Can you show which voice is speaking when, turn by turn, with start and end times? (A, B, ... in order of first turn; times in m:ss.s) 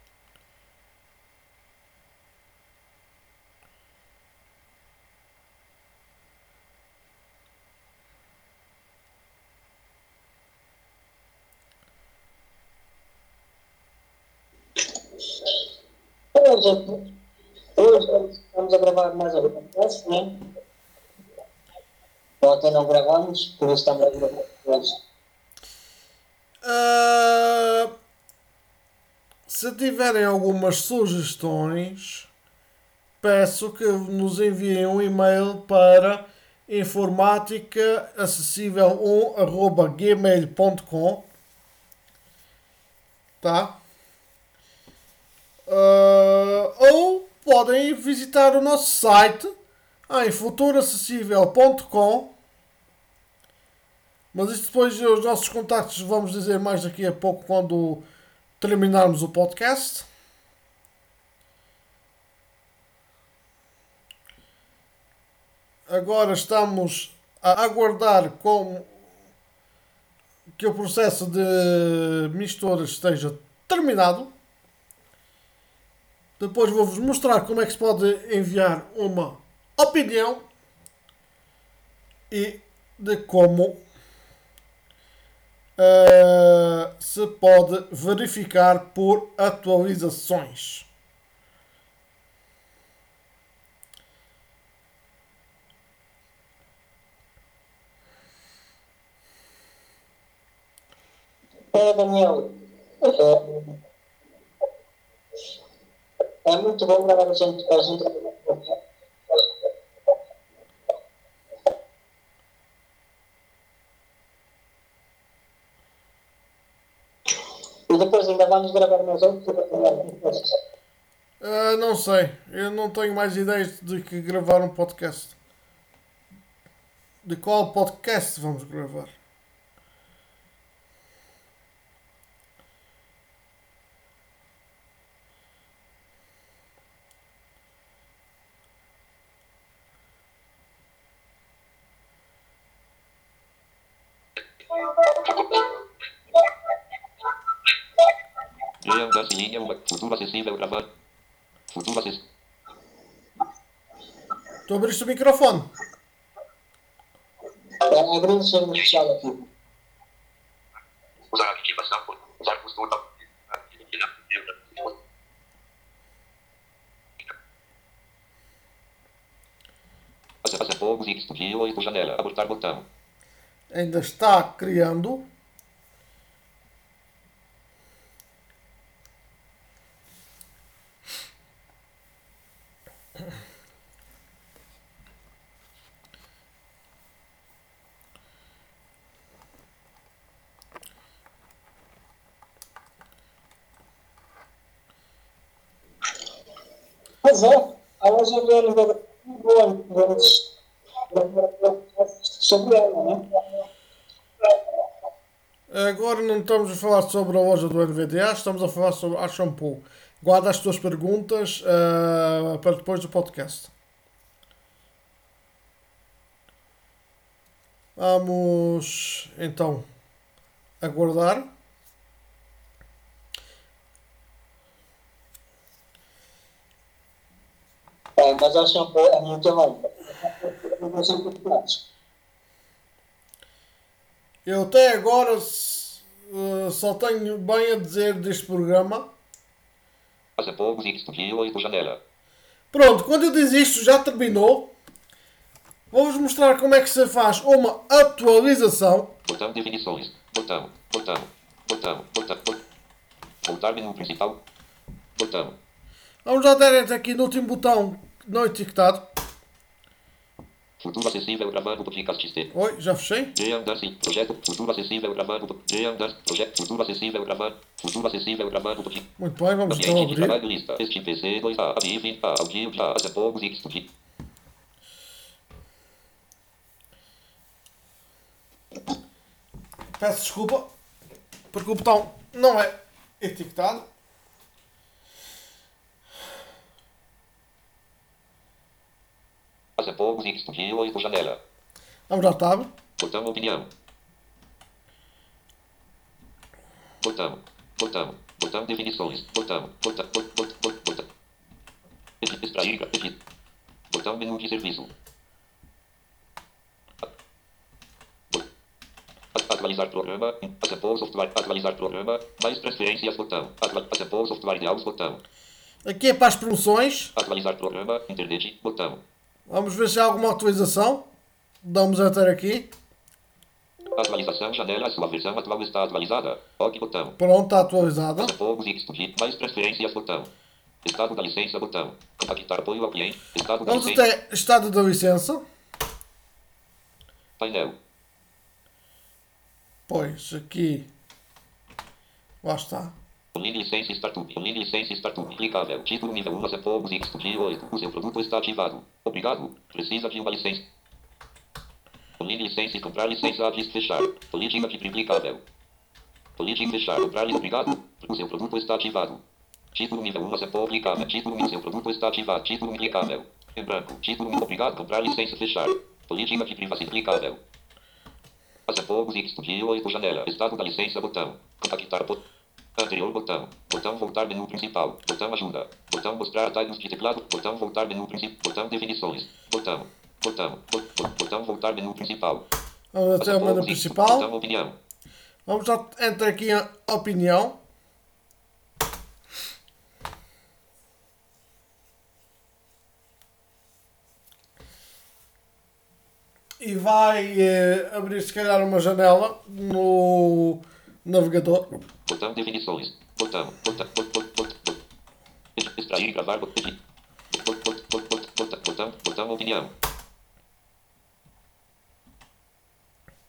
0:16.3-0:17.1 A
0:17.8-0:20.5 A
0:22.4-0:25.0 A
0:26.6-0:27.9 B
0:29.5-0:32.3 B
0:33.2-0:41.3 B
0:43.4-0:43.8 B
0:45.7-0:49.5 B
0:50.1-0:52.3 B
0:54.3-0:58.0 B
0:58.6-1:00.1 B
1:05.9-1:08.9 B
1:10.6-1:14.3 B
1:16.4-1:20.4 B
1:22.3-1:23.8 B
1:25.8-1:30.9 B
1:41.7-1:43.8 A
1:46.4-1:48.8 A
1:57.9-2:00.6 A
2:01.4-2:05.4 B
2:07.2-2:09.1 B
2:28.8-2:30.9 C
2:31.7-2:32.2 C
2:34.7-2:35.7 B
2:37.9-2:39.5 A
2:41.3-2:44.9 C
2:50.4-2:52.9 C
2:53.7-2:55.2 B
3:17.2-3:20.4 A
3:21.1-3:23.2 A
3:25.7-3:33.7 B
3:38.0-3:39.8 B
3:40.8-3:41.5 B
3:48.2-3:51.8 A
3:54.4-3:59.1 B
4:00.4-4:02.0 C
4:02.7-4:04.7 B
4:05.9-4:09.1 B
4:09.2-4:12.6 C
4:13.4-4:14.4 C
4:15.2-4:15.6 C
4:16.2-4:19.1 B
4:20.8-4:22.5 C
4:22.5-4:23.3 B
4:23.3-4:29.0 C
4:29.2-4:30.4 B
4:29.7-4:33.9 C
4:40.0-4:40.7 B
4:41.5-4:43.9 B
4:49.8-4:51.4 C
4:52.1-4:52.7 B
4:53.0-4:53.7 C
4:57.0-5:01.1 C
5:02.2-5:03.2 C
5:03.9-5:04.9 C
5:09.4-5:15.2 C
5:15.8-5:17.1 B
5:17.2-5:19.0 C
5:19.5-5:21.1 B
5:21.6-5:22.7 B
5:24.0-5:27.2 C
5:27.2-5:28.3 B
5:28.2-5:30.3 C
5:30.8-5:34.0 C
5:33.6-5:35.4 B
5:37.4-5:37.8 C
5:39.9-5:40.9 B
5:42.4-5:42.9 B
5:43.4-5:50.7 C
5:52.2-5:55.4 C
5:56.4-5:59.2 C
5:59.7-6:07.4 C
6:08.7-6:12.2 C
6:12.8-6:22.4 C
6:22.9-6:24.3 B
6:23.2-6:24.8 C
6:25.5-6:27.6 B
6:36.6-6:41.8 B
6:42.1-6:44.8 C
6:45.6-6:46.8 C
6:47.3-6:49.7 C